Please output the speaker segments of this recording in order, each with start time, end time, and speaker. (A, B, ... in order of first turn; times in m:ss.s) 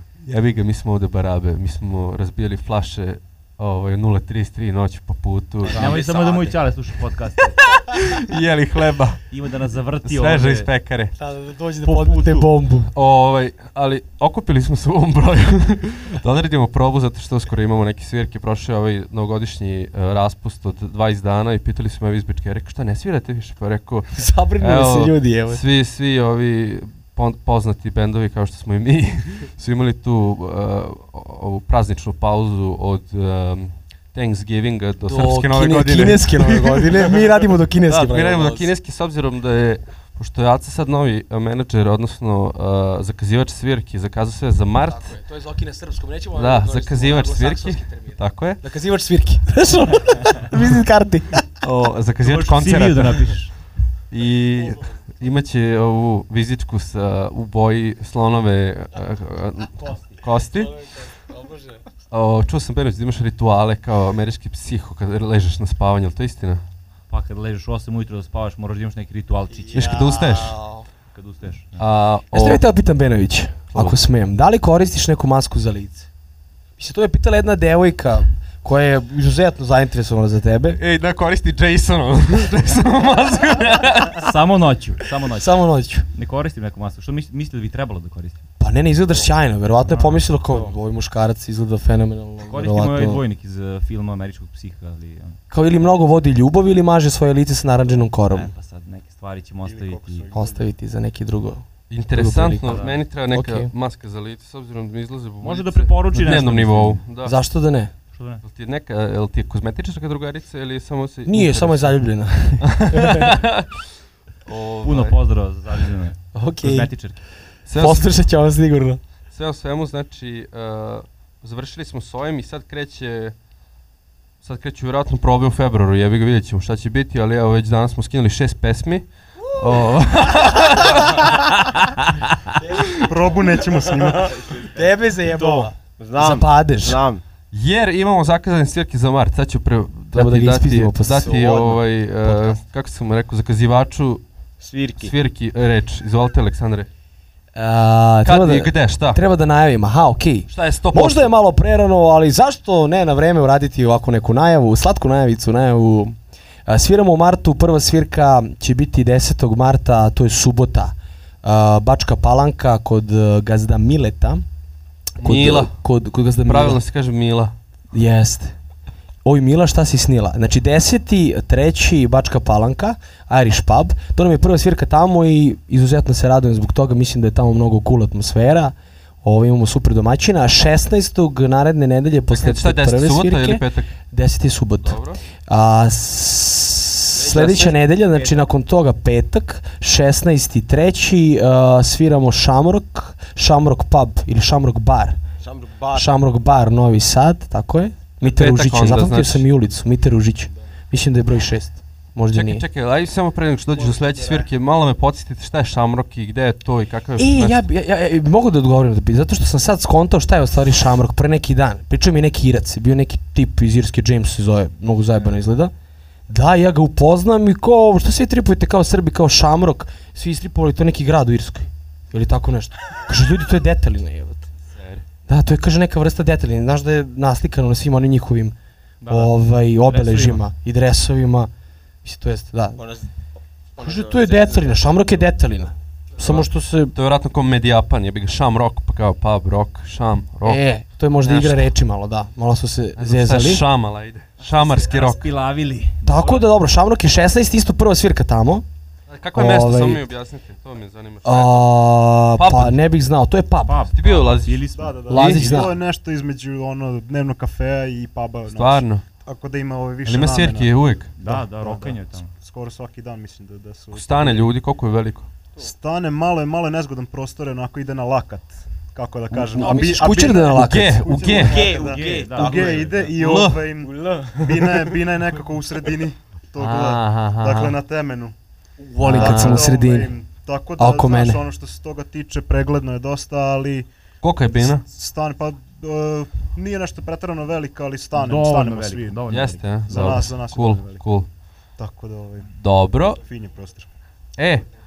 0:00.2-0:05.8 A
0:05.6-0:06.6 B
0:05.7-0:07.6 C
0:07.6-0:09.3 A
0:09.3-0:10.7 C
0:10.0-0:11.1 A
0:11.2-0:12.9 D
0:11.8-0:12.5 C
0:12.9-0:37.0 A
0:24.2-0:25.6 D
0:35.1-0:38.7 D
0:37.9-0:45.2 A
0:44.8-0:51.4 D
0:46.4-0:48.6 A
0:51.6-0:53.4 A
0:52.2-0:53.6 C
0:54.1-1:00.7 A
1:00.6-1:01.8 D
1:02.1-1:06.6 A
1:07.1-1:10.2 C
1:09.5-1:10.9 D
1:09.7-1:10.6 A
1:11.1-1:11.9 C
1:11.8-1:12.6 A
1:12.3-1:16.1 D
1:13.7-1:14.0 A
1:16.8-1:20.8 D
1:20.8-1:24.3 A
1:24.2-1:25.6 C
1:25.4-1:26.1 D
1:26.1-1:28.4 C
1:28.6-1:33.2 D
1:29.9-1:30.6 C
1:32.4-1:35.4 C
1:35.5-1:38.5 D
1:38.3-1:40.3 C
1:39.6-1:40.7 E
1:40.3-1:43.7 D
1:41.9-1:47.3 A
1:42.7-1:43.0 C
1:45.4-1:47.0 C
1:47.2-1:47.9 D
1:48.1-1:48.4 C
1:48.4-1:52.0 A
1:51.2-1:53.4 D
1:52.6-1:53.7 A
1:54.5-1:55.2 A
1:54.8-1:57.2 C
1:56.3-1:56.9 D
1:57.7-1:58.1 A
1:57.8-1:59.0 D
1:59.3-2:03.3 A
2:04.4-2:11.6 A
2:12.6-2:13.4 D
2:13.0-2:14.7 E
2:13.9-2:14.6 B
2:14.7-2:17.0 D
2:15.3-2:17.2 B
2:17.5-2:24.2 A
2:20.1-2:22.6 D
2:24.6-2:25.2 B
2:25.0-2:26.9 A
2:27.6-2:44.4 D
2:28.2-2:29.2 A
2:30.5-2:31.3 A
2:45.2-2:45.8 A
2:45.2-2:46.8 D
2:46.4-2:47.5 A
2:47.9-2:48.6 D
2:49.2-3:15.2 D
3:02.3-3:04.0 A
3:04.8-3:05.2 A
3:07.1-3:08.5 B
3:15.4-3:16.2 B
3:15.9-3:22.6 D
3:18.2-3:19.4 A
3:22.3-3:27.6 A
3:23.7-3:24.5 E
3:27.2-3:35.7 D
3:36.3-3:44.5 D
3:44.7-3:45.0 A
3:45.3-3:48.6 D
3:49.0-3:50.4 C
3:49.1-3:51.5 D
3:52.0-3:52.8 D
3:52.8-3:53.1 B
3:53.8-3:55.2 B
3:53.8-3:56.9 D
3:56.2-4:00.6 A
4:00.4-4:03.6 D
4:01.2-4:01.7 A
4:03.0-4:05.3 A
4:04.4-4:06.5 C
4:06.0-4:08.6 D
4:09.1-4:11.7 A
4:09.4-4:10.0 D
4:11.2-4:13.8 D
4:12.4-4:12.8 A
4:13.6-4:15.7 C
4:13.9-4:15.4 A
4:14.7-4:24.5 E
4:15.1-4:15.7 D
4:18.5-4:19.0 A
4:20.0-4:21.1 A
4:21.2-4:22.3 C
4:23.9-4:25.3 A
4:25.6-4:38.4 E
4:29.3-4:31.1 D
4:29.6-4:31.7 A
4:31.3-4:33.1 B
4:31.6-4:33.2 C
4:33.2-4:33.6 A
4:33.8-4:35.1 B
4:36.6-4:37.8 A
4:38.8-4:40.1 D
4:39.0-4:43.9 E
4:39.0-4:39.7 A
4:40.8-4:41.4 D
4:44.2-4:44.8 A
4:44.6-4:49.2 E
4:48.1-4:50.2 C
4:49.3-4:51.3 A
4:49.9-4:51.0 E
4:51.8-4:52.5 E
4:52.5-4:53.2 A
4:53.2-4:53.9 E
4:54.4-4:54.6 A